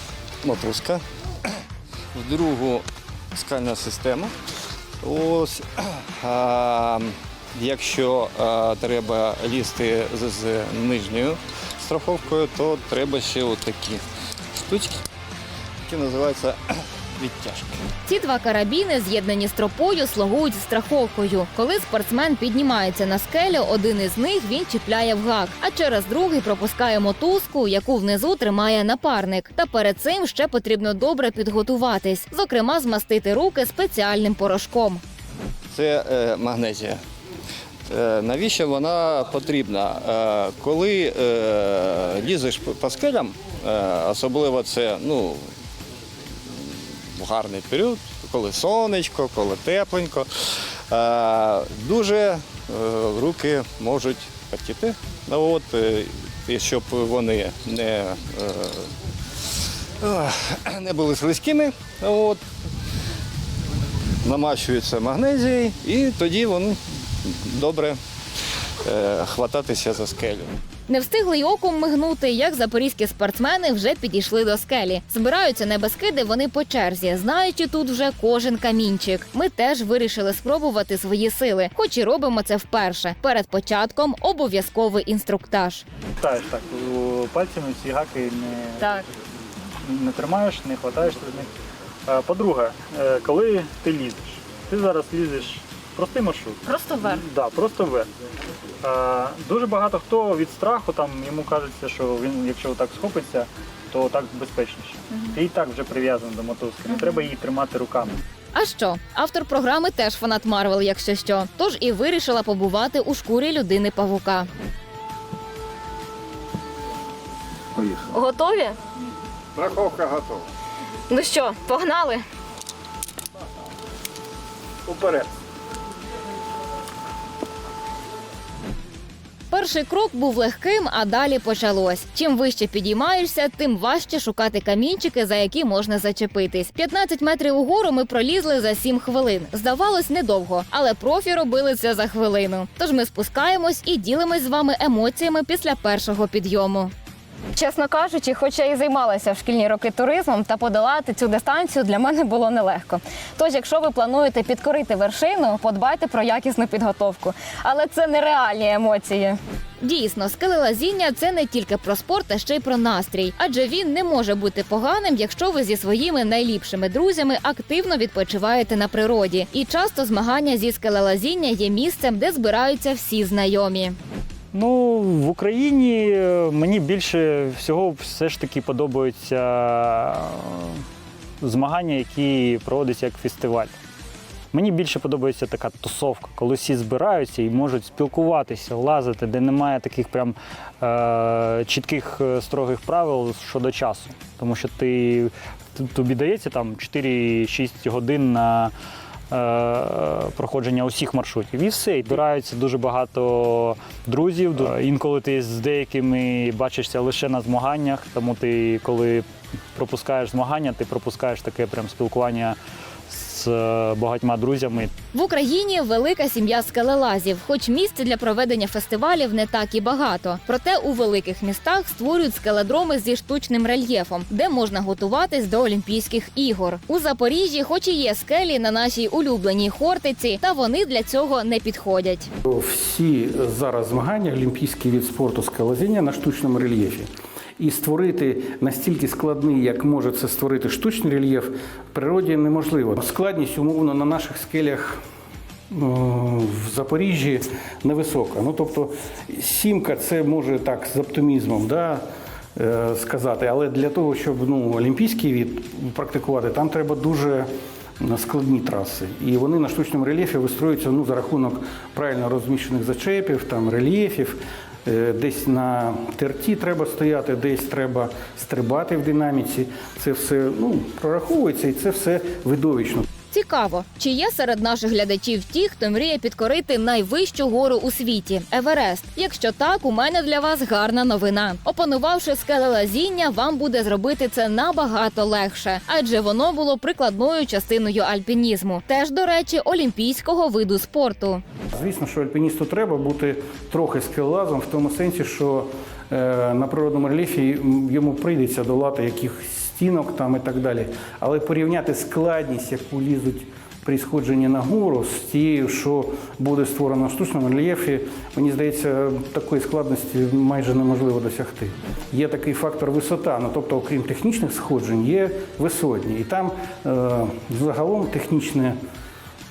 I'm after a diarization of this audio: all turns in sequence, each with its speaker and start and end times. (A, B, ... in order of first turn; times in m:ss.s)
0:00.4-0:01.0 A
0:02.1-0:04.3 A
0:05.0-0:14.0 A
0:14.5-0:15.0 A
0:15.8-0:17.8 A
0:18.0-0:35.0 B
0:35.7-0:37.0 A
0:37.9-0:45.5 A
0:46.5-0:58.9 A
1:00.0-1:02.4 A
1:04.2-1:08.0 A
1:08.8-1:10.5 A
1:10.9-1:25.8 B
1:26.2-1:28.9 C
1:28.8-1:29.0 B
1:29.8-1:31.5 C
1:32.1-1:38.1 C
1:36.6-1:37.2 B
1:38.8-1:48.2 C
1:48.5-1:54.5 B
1:58.1-1:58.8 B
1:59.6-2:00.4 A
2:01.1-2:02.2 B
2:09.5-2:26.9 B
2:27.5-2:54.0 B
2:54.5-3:00.8 C
3:01.4-3:03.7 C
3:04.5-3:18.7 C
3:19.3-3:32.6 C
3:33.1-3:34.9 C
3:35.1-3:52.3 B
3:52.4-4:05.0 D
4:05.7-4:12.0 D
4:12.6-4:33.1 D
4:33.3-4:51.4 B
4:51.7-5:18.8 D